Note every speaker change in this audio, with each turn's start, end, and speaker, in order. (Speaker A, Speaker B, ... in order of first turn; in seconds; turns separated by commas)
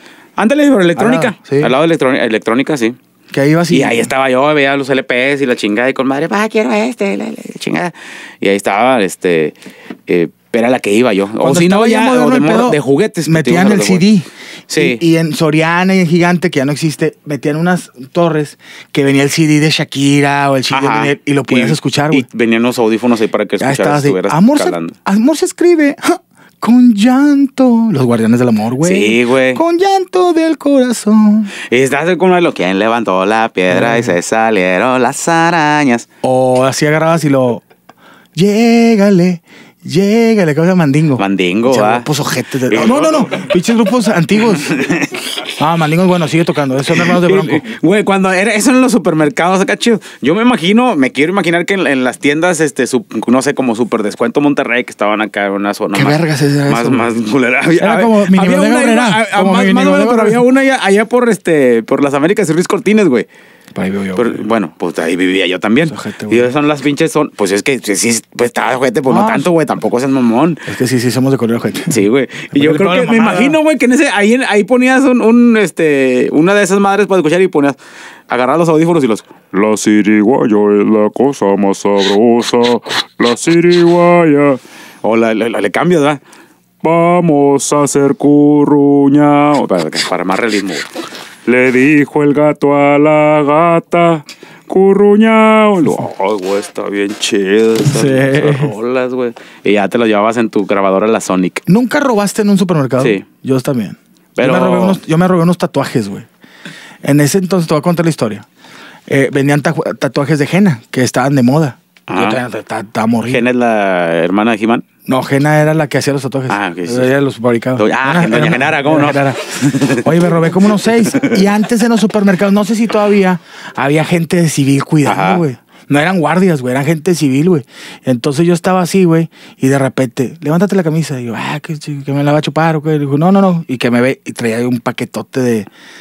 Speaker A: 0.4-3.0, Speaker B: 0.9-1.7, Speaker B: 3.3-4.1, Speaker A: 3.7-9.5, Speaker A: 10.1-14.0, Speaker B: 11.4-22.2, Speaker A: 14.7-15.0, Speaker A: 20.7-24.9, Speaker B: 23.6-31.5, Speaker A: 28.8-29.6, Speaker A: 31.7-36.1, Speaker B: 33.7-34.1, Speaker B: 36.2-37.6, Speaker B: 38.3-44.8, Speaker A: 41.2-42.1, Speaker A: 42.7-43.4, Speaker A: 44.7-45.2, Speaker B: 45.6-47.7, Speaker A: 47.2-63.3, Speaker B: 55.9-57.1, Speaker B: 57.8-60.4, Speaker B: 63.7-64.5, Speaker A: 64.2-70.7, Speaker B: 65.9-66.5, Speaker B: 69.1-69.5, Speaker B: 70.7-72.0, Speaker A: 71.9-77.8, Speaker B: 72.5-73.6, Speaker A: 78.3-79.6, Speaker C: 79.5-84.6, Speaker A: 80.8-86.2, Speaker C: 86.8-89.5, Speaker A: 87.3-88.0, Speaker A: 89.0-90.9, Speaker C: 91.5-96.0, Speaker A: 91.5-92.3, Speaker A: 93.5-94.2, Speaker A: 95.8-101.6, Speaker B: 97.8-98.7, Speaker B: 101.7-106.3, Speaker A: 103.0-103.2, Speaker A: 104.4-105.0, Speaker B: 107.0-108.5, Speaker B: 109.1-113.4, Speaker A: 112.1-112.4, Speaker A: 113.3-114.8, Speaker B: 115.0-135.7, Speaker A: 116.5-117.1, Speaker A: 117.8-120.1, Speaker A: 121.1-121.4, Speaker A: 125.0-125.4